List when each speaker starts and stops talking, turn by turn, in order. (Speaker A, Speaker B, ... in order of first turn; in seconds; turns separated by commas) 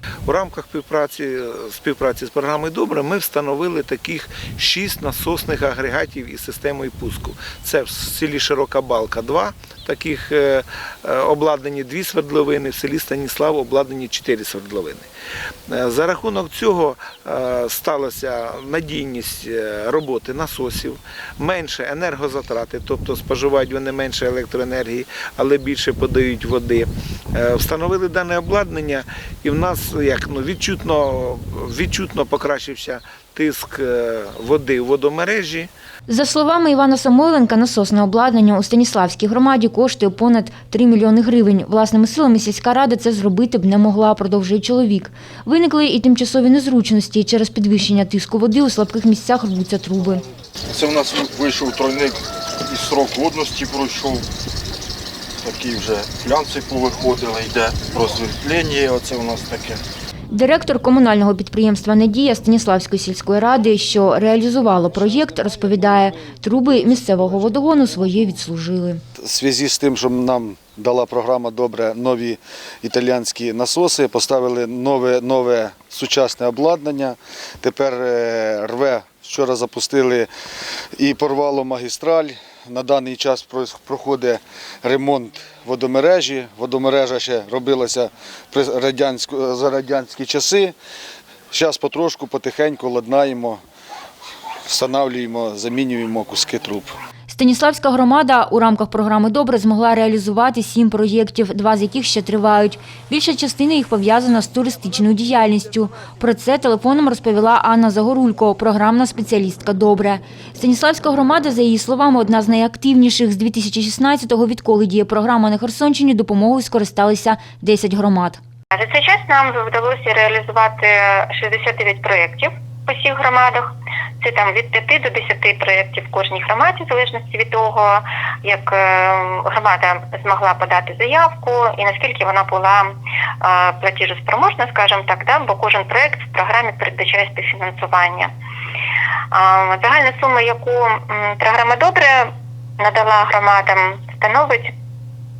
Speaker A: 0.2-15.1, Speaker A: 15.7-35.7, Speaker B: 36.1-50.2, Speaker C: 50.7-54.3, Speaker C: 55.4-59.8, Speaker B: 60.3-69.0, Speaker D: 69.2-80.3, Speaker D: 80.9-90.7, Speaker D: 91.5-93.6, Speaker D: 94.7-96.9, Speaker B: 97.3-118.4, Speaker E: 118.8-138.3, Speaker E: 139.3-142.3, Speaker E: 142.8-144.7